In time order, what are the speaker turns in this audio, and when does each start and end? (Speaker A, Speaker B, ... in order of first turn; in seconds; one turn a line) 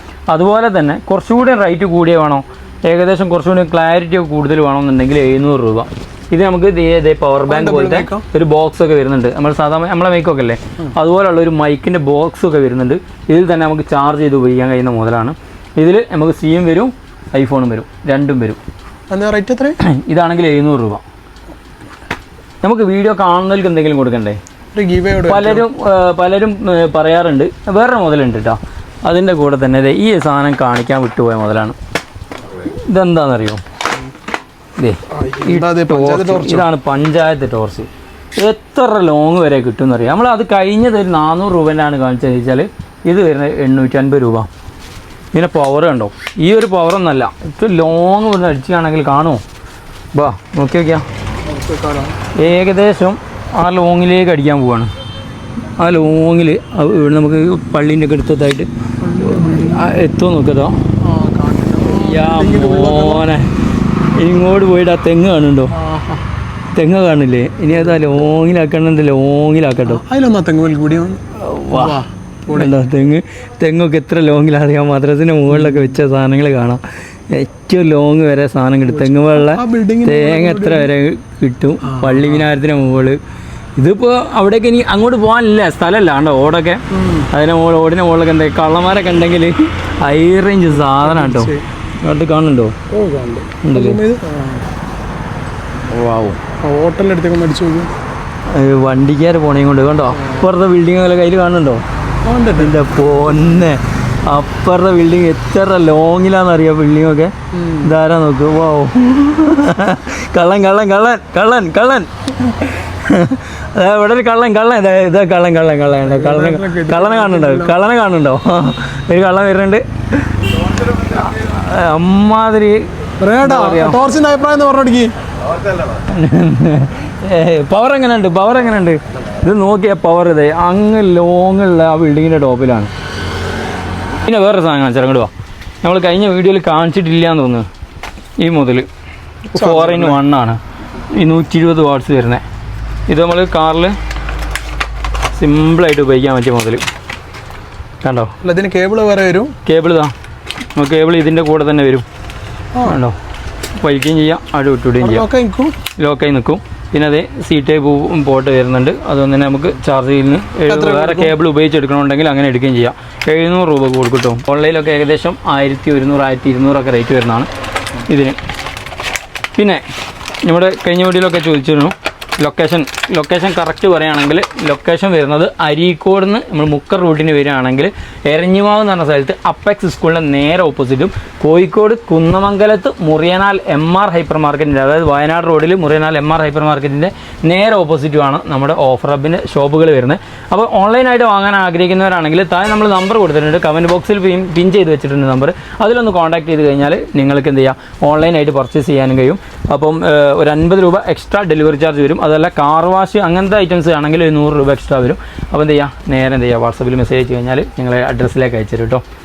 Speaker A: 0.3-18.6
Speaker B: 7.5-8.2
Speaker B: 19.1-19.8
Speaker A: 19.8-21.0
Speaker A: 22.6-24.4
Speaker B: 24.7-25.6
Speaker A: 25.3-31.8
Speaker A: 32.6-33.6
Speaker A: 34.8-44.5
Speaker B: 35.1-36.7
Speaker A: 45.3-49.4
Speaker A: 50.1-51.0
Speaker B: 51.5-52.2
Speaker A: 52.3-54.9
Speaker A: 55.8-58.7
Speaker B: 59.0-59.9
Speaker A: 59.2-60.8
Speaker B: 61.0-63.3
Speaker A: 61.9-63.5
Speaker A: 64.2-65.7
Speaker B: 65.7-66.2
Speaker A: 66.7-70.0
Speaker B: 67.7-68.0
Speaker B: 69.8-72.7
Speaker A: 71.3-83.2
Speaker B: 75.5-76.0
Speaker B: 78.9-80.9
Speaker B: 81.8-82.5
Speaker A: 83.8-92.7
Speaker B: 86.9-87.3
Speaker B: 90.8-91.6
Speaker B: 92.9-94.6
Speaker A: 93.6-94.0
Speaker A: 95.9-96.4
Speaker B: 96.6-97.9
Speaker A: 98.5-101.8
Speaker B: 100.2-100.4
Speaker B: 102.2-102.8
Speaker A: 102.6-122.8
Speaker B: 107.5-107.9
Speaker B: 116.0-117.8
Speaker B: 123.2-125.1
Speaker A: 123.4-124.0
Speaker A: 126.1-132.9
Speaker A: 134.2-135.3
Speaker A: 135.8-137.7
Speaker A: 138.4-138.9
Speaker A: 139.5-140.6
Speaker B: 139.5-140.2
Speaker A: 141.1-142.4
Speaker A: 143.1-143.9
Speaker A: 145.3-146.8
Speaker A: 148.0-148.3
Speaker B: 148.4-149.5
Speaker A: 149.6-150.1
Speaker A: 150.8-152.0
Speaker B: 152.7-153.0
Speaker A: 152.8-153.2
Speaker A: 153.8-155.2
Speaker B: 155.0-155.8
Speaker A: 156.0-167.5
Speaker B: 160.7-161.4
Speaker A: 168.1-168.4
Speaker A: 169.6-169.8
Speaker A: 170.4-209.0